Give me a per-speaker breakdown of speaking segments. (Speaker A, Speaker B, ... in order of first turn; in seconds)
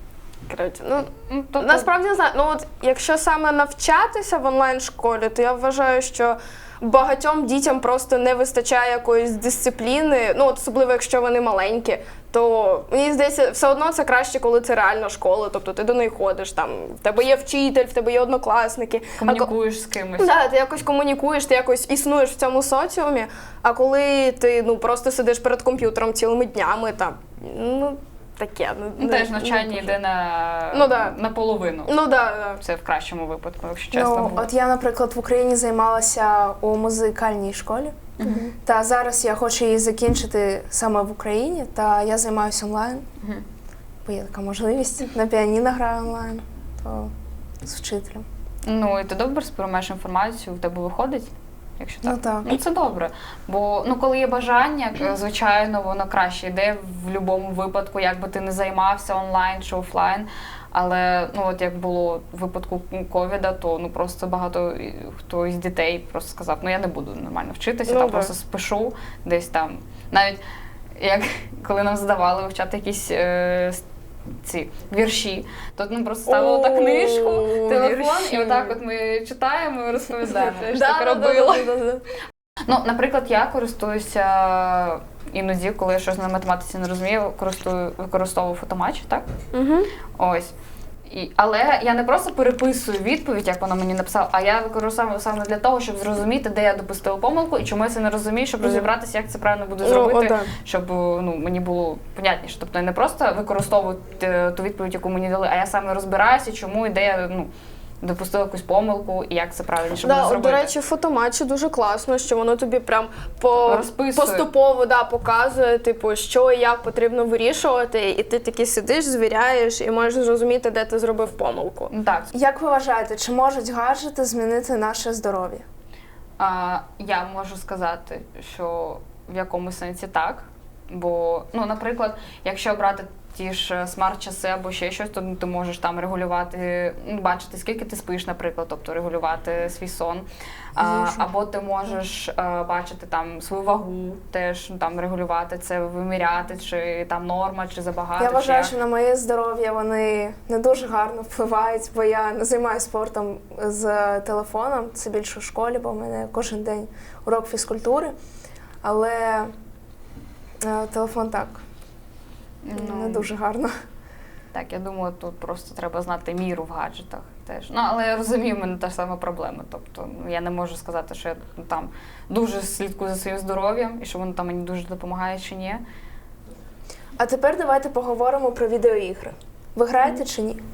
Speaker A: 0.5-19.5, 20.2-30.0, 30.7-31.1, 31.9-32.6, 38.2-38.5, 67.8-68.3, 76.3-78.8, 80.2-82.0, 89.5-89.9, 98.6-98.9, 99.8-100.5, 110.0-121.9
Speaker B: 1.3-1.9, 19.2-20.3, 29.0-32.0, 32.6-34.5, 38.2-38.5, 48.6-70.4, 71.0-73.8, 74.4-81.7, 82.7-89.2, 90.2-90.5, 91.1-107.5, 108.0-110.7, 113.6-114.5, 121.9-122.3, 126.4-140.2, 140.8-148.7, 162.6-163.3, 164.5-175.8
Speaker C: 33.9-43.1, 44.0-48.3, 52.0-52.5, 122.3-125.6, 140.8-141.3, 148.2-158.1, 158.8-159.5, 160.6-161.6, 162.7-163.7, 177.2-180.6